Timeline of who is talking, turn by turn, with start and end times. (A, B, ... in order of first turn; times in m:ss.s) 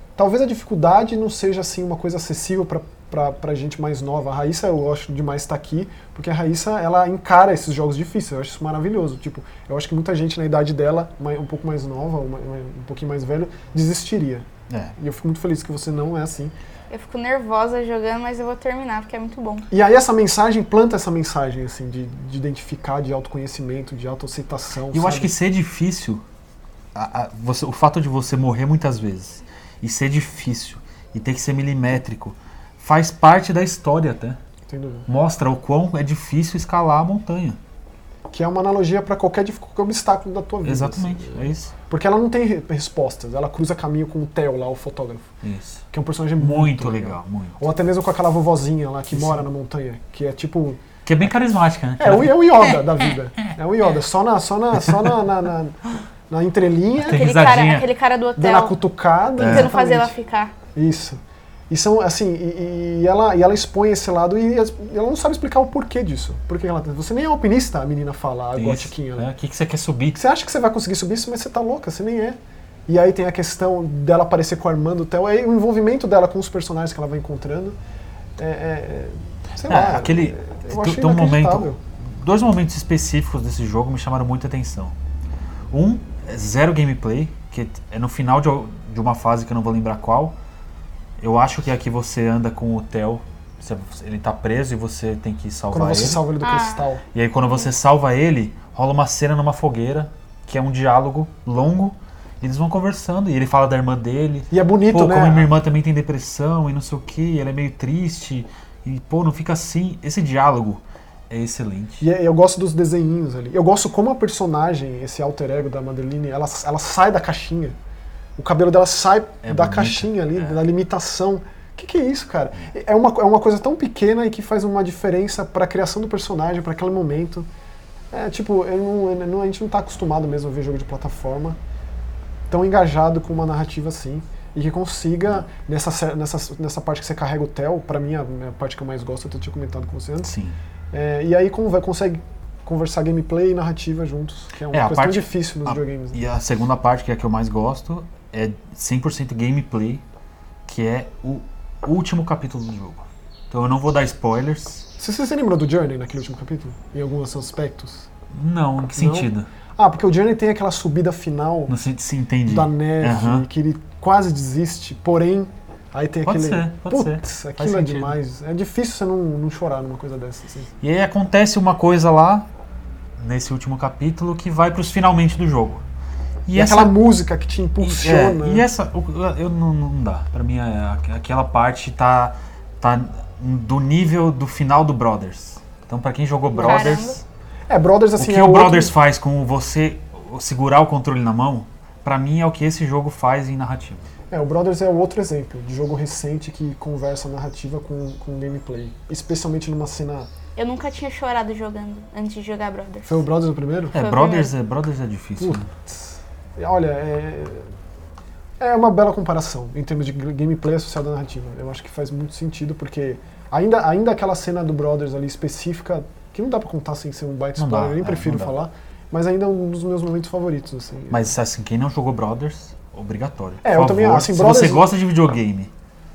0:00.2-0:16.5 A
0:16.9-0:19.6 B
0:19.7-0:25.3 A
0:24.9-0:26.2 C
0:26.9-0:34.4 C
0:34.7-0:35.1 A
0:35.1-0:37.6 C
0:38.3-0:45.2 A
0:40.6-0:41.7 C
0:45.4-0:45.8 C
0:45.9-0:50.8 A
0:46.4-0:47.6 C
0:49.1-0:49.4 C
0:51.0-0:52.8 C
0:52.0-0:57.3 A
0:56.9-0:57.9 C
0:57.1-0:58.8 B
0:58.4-1:00.1 A
0:59.4-0:59.7 C
0:59.4-1:00.5 B
1:00.7-1:01.2 A
1:01.7-1:09.3 A
1:08.6-1:10.2 C
1:10.1-1:17.8 A
1:18.4-1:21.8 A
1:19.7-1:24.9 C
1:25.7-1:30.4 C
1:31.2-1:36.2 C
1:35.7-1:37.0 A
1:36.4-1:36.9 B
1:37.1-1:52.0 C
1:44.5-1:45.5 A
1:52.0-1:57.8 A
1:58.4-2:07.5 A
1:59.4-2:00.6 C
2:08.1-2:11.6 A
2:12.5-2:20.3 A
2:20.2-2:20.6 C
2:20.9-2:26.2 A
2:24.7-2:30.0 C
2:30.7-2:34.8 C
2:35.0-2:38.1 A
2:38.3-2:39.5 C
2:38.9-2:41.7 A
2:41.7-2:43.5 C
2:42.5-2:50.7 A
2:46.2-2:48.2 C
2:50.8-2:52.5 C
2:53.2-2:55.8 C
2:56.4-2:56.9 C
2:56.5-2:58.7 A
2:57.8-3:07.2 C
3:06.5-3:07.0 A
3:06.5-3:07.2 B
3:07.7-3:08.9 A
3:08.2-3:14.1 C
3:14.3-3:20.3 A
3:20.6-3:23.2 B
3:23.0-3:23.9 A
3:23.9-3:25.7 C
3:23.9-3:24.5 B
3:25.4-3:27.7 A
3:28.6-3:41.3 A
3:37.6-3:38.6 C
3:41.1-3:45.7 C
3:43.6-3:44.9 A